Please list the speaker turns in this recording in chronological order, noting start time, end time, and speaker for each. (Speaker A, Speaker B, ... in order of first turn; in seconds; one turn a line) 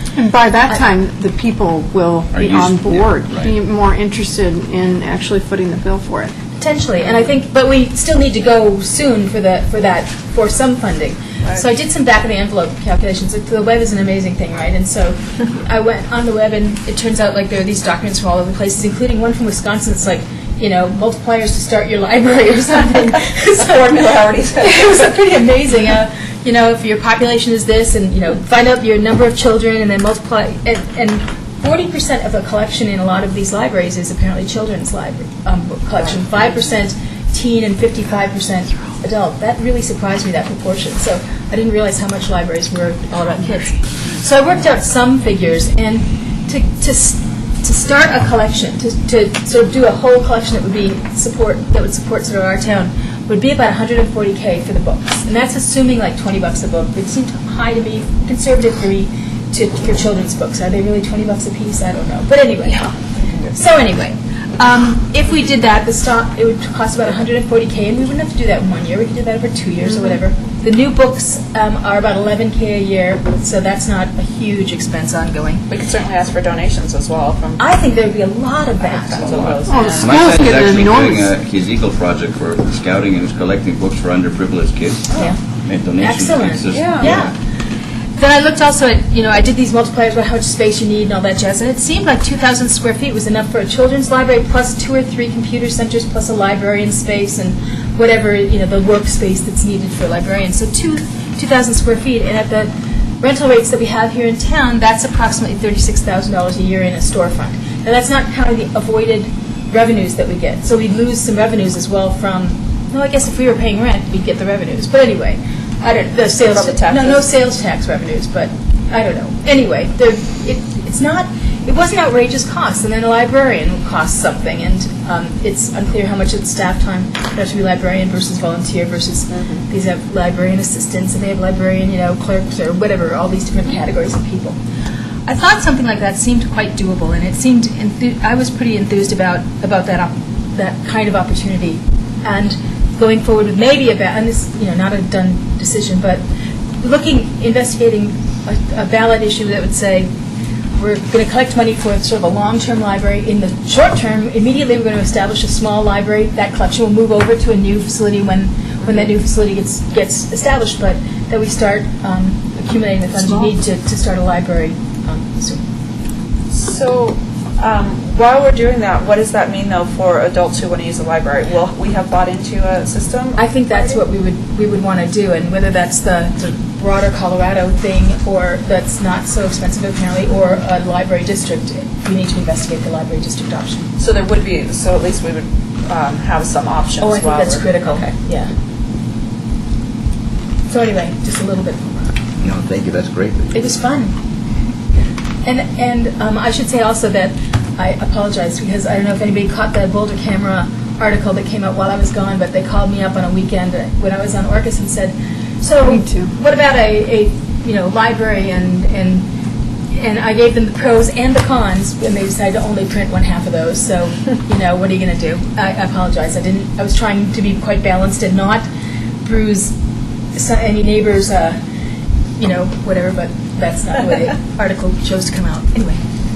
Speaker A: 0.2-6.3
Speaker B: 2.3-3.6
Speaker C: 6.6-23.7
Speaker D: 23.4-25.1
Speaker C: 24.6-62.9
Speaker C: 63.5-75.7
Speaker D: 75.7-77.6
Speaker C: 77.6-79.2
Speaker D: 78.8-80.4
Speaker B: 79.1-85.1
Speaker A: 79.7-81.3
Speaker B: 85.6-87.3
Speaker C: 86.0-87.3
Speaker D: 86.7-87.1
Speaker C: 88.2-134.6
Speaker D: 116.4-117.3
Speaker D: 129.3-129.6
Speaker C: 135.3-146.2
Speaker C: 146.8-150.1
Speaker C: 150.8-165.6
Speaker D: 166.5-174.0
Speaker C: 173.3-183.9
Speaker D: 184.0-188.2
Speaker C: 187.0-188.5
Speaker C: 190.7-192.1
Speaker B: 192.4-193.5
Speaker C: 193.5-194.1
Speaker C: 195.4-209.3
Speaker A: 205.8-206.3
Speaker C: 209.9-218.7
Speaker C: 219.2-219.7
Speaker C: 220.3-221.6
Speaker C: 222.4-226.0